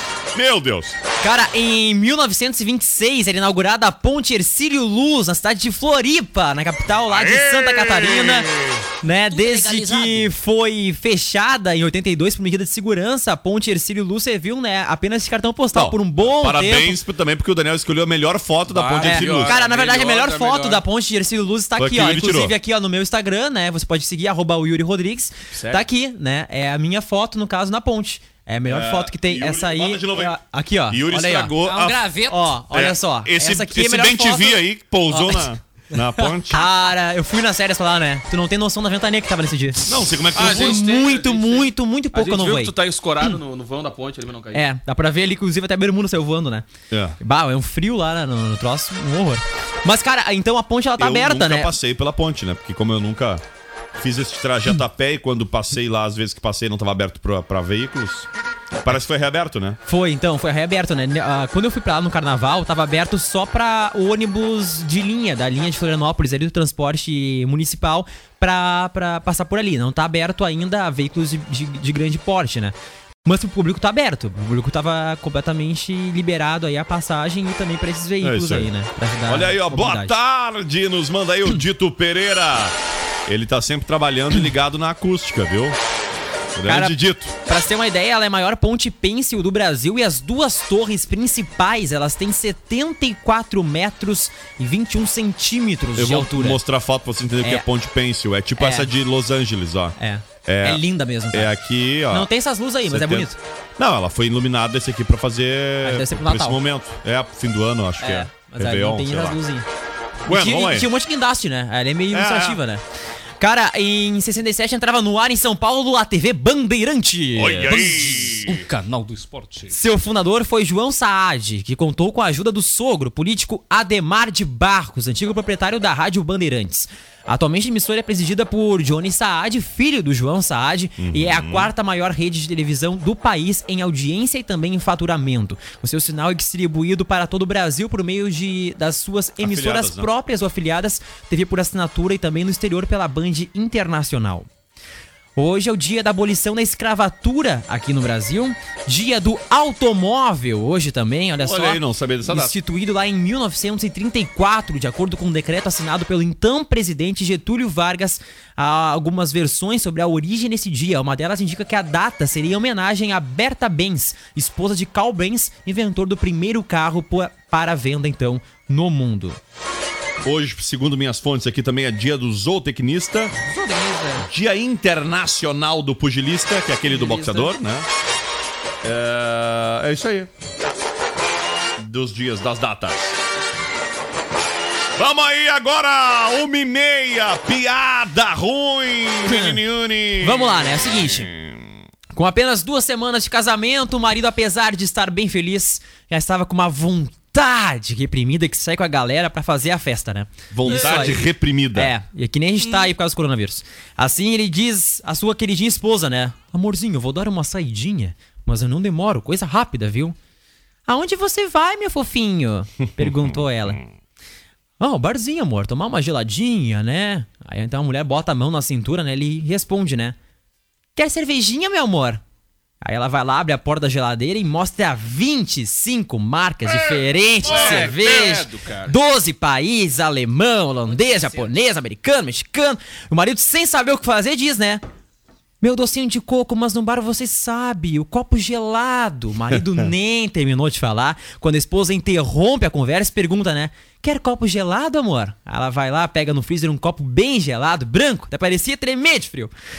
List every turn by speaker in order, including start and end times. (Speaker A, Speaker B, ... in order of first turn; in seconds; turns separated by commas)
Speaker A: 0.3-1.0, Speaker B: 1.2-8.5, Speaker A: 7.1-8.8, Speaker B: 9.0-17.0, Speaker C: 9.3-10.3, Speaker A: 15.7-19.6, Speaker D: 18.7-20.8, Speaker B: 19.0-31.5, Speaker A: 21.8-22.6, Speaker D: 25.5-25.8, Speaker A: 28.7-30.4, Speaker A: 30.9-32.0, Speaker C: 31.6-32.5, Speaker B: 32.3-35.5, Speaker A: 32.7-36.6, Speaker B: 36.5-42.7, Speaker A: 39.9-40.8, Speaker D: 40.3-44.6, Speaker B: 44.5-46.6, Speaker A: 46.9-47.2, Speaker B: 47.2-51.7, Speaker A: 51.0-53.4, Speaker A: 54.0-58.3, Speaker A: 58.8-59.8, Speaker B: 59.9-72.7, Speaker B: 73.2-80.1, Speaker A: 78.2-78.7, Speaker A: 79.3-82.7, Speaker A: 83.3-85.8, Speaker A: 86.5-87.3, Speaker B: 86.7-96.6, Speaker A: 96.0-102.3, Speaker B: 97.4-97.7, Speaker B: 98.6-98.9, Speaker B: 100.0-101.5, Speaker B: 102.1-103.3, Speaker A: 102.8-109.4, Speaker B: 105.8-106.6, Speaker B: 108.0-109.7, Speaker A: 110.2-110.9, Speaker B: 110.2-112.8, Speaker A: 112.1-112.6, Speaker B: 113.4-117.8, Speaker A: 117.3-118.7, Speaker C: 117.6-119.7, Speaker B: 119.7-144.5, Speaker A: 131.0-131.7, Speaker A: 139.4-140.1, Speaker B: 145.3-169.4, Speaker A: 151.4-152.5, Speaker A: 170.2-173.3, Speaker B: 173.4-174.3, Speaker A: 174.2-177.8, Speaker B: 176.8-177.5, Speaker A: 178.8-180.3, Speaker A: 181.8-183.2, Speaker A: 184.9-191.8, Speaker B: 189.2-189.6, Speaker B: 190.2-191.3, Speaker B: 192.1-210.2, Speaker A: 200.5-201.9, Speaker B: 210.9-213.8, Speaker A: 213.0-213.8, Speaker B: 214.8-220.2, Speaker B: 220.9-222.2, Speaker B: 222.8-234.8, Speaker D: 226.7-228.9, Speaker A: 227.5-227.9, Speaker B: 235.6-249.5